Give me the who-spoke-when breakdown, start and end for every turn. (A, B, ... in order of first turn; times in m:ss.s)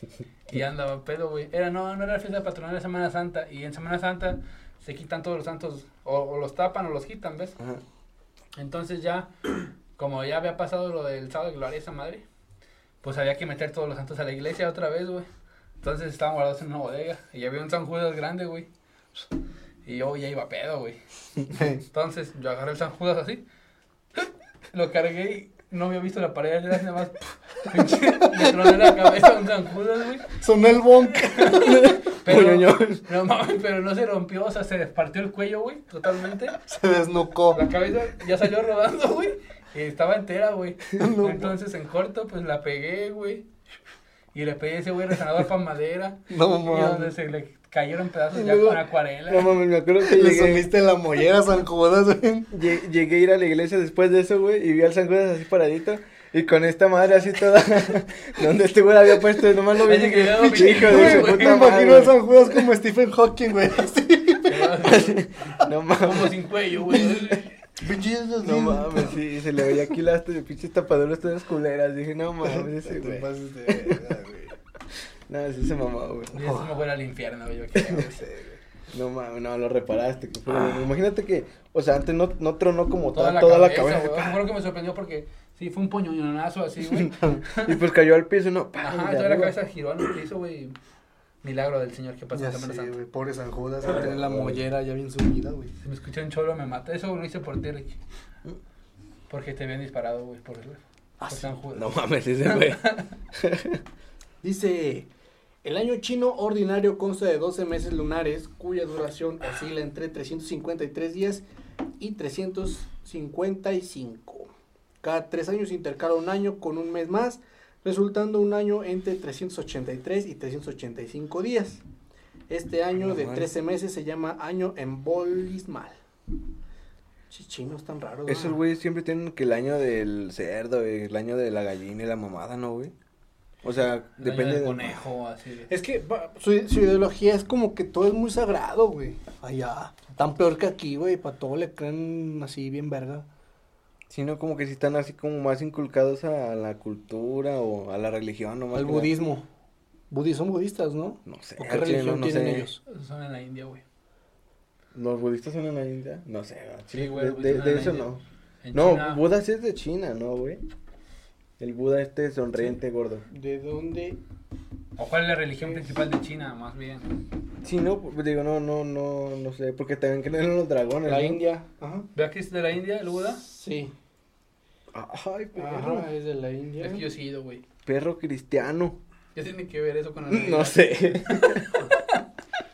0:00.5-0:07.6 A
0:08.6-0:09.3 A
0:10.0-0:12.2 A
0:13.0-0:15.2 A
0:15.8-0:18.7 A
0:19.8-0:21.0 A
0:21.5-0:21.8 B
0:21.9-0:23.4 A
0:24.7-0:30.3 A
0:30.3-0:31.8 B
0:31.3-0:36.6 A
0:31.6-0:33.0 C
0:36.6-0:37.6 B
0:37.5-0:43.4 A
0:40.9-0:41.5 B
0:44.3-0:49.5 A
0:46.3-0:47.1 B
0:48.3-0:50.7 C
0:50.0-0:52.5 B
0:52.5-1:02.6 C
0:59.8-1:01.7 A
1:00.4-1:04.8 B
1:04.5-1:05.2 A
1:04.8-1:06.4 C
1:06.0-1:07.5 A
1:07.8-1:09.2 B
1:08.4-1:14.0 C
1:12.4-1:14.5 B
1:15.3-1:16.3 C
1:16.3-1:18.2 A
1:16.3-1:16.7 B
1:17.7-1:18.0 C
1:18.9-1:24.4 C
1:20.5-1:20.8 B
1:23.1-1:27.8 A
1:27.1-1:27.4 B
1:27.6-1:29.5 C
1:28.8-1:30.8 A
1:31.4-1:32.9 A
1:32.3-1:35.7 B
1:33.8-1:34.6 C
1:35.8-1:38.0 A
1:39.3-1:43.1 A
1:41.2-1:41.5 B
1:41.7-1:43.8 C
1:44.4-1:45.1 B
1:45.6-1:51.4 B
1:52.0-1:54.5 B
1:55.0-2:01.8 B
2:02.5-2:06.0 B
2:02.9-2:03.5 C
2:07.3-2:08.6 B
2:08.3-2:12.9 C
2:13.6-2:15.0 C
2:14.2-2:15.7 A
2:15.7-2:23.2 B
2:24.1-2:29.1 C
2:28.7-2:29.4 B
2:30.1-2:32.8 B
2:31.2-2:32.7 C
2:32.8-2:33.8 A
2:34.9-2:38.2 C
2:36.9-2:38.1 A
2:38.6-2:39.2 A
2:38.7-2:40.6 C
2:41.6-2:43.2 C
2:43.3-2:44.2 B
2:45.0-2:47.1 A
2:45.6-2:45.9 B
2:47.6-2:51.4 C
2:51.0-2:52.1 B
2:52.1-2:53.4 A
2:53.4-2:53.9 B
2:54.9-2:56.1 C
2:55.6-2:57.0 B
2:56.8-2:57.6 A
2:57.8-2:59.0 C
2:59.3-3:02.2 A
3:00.3-3:01.8 C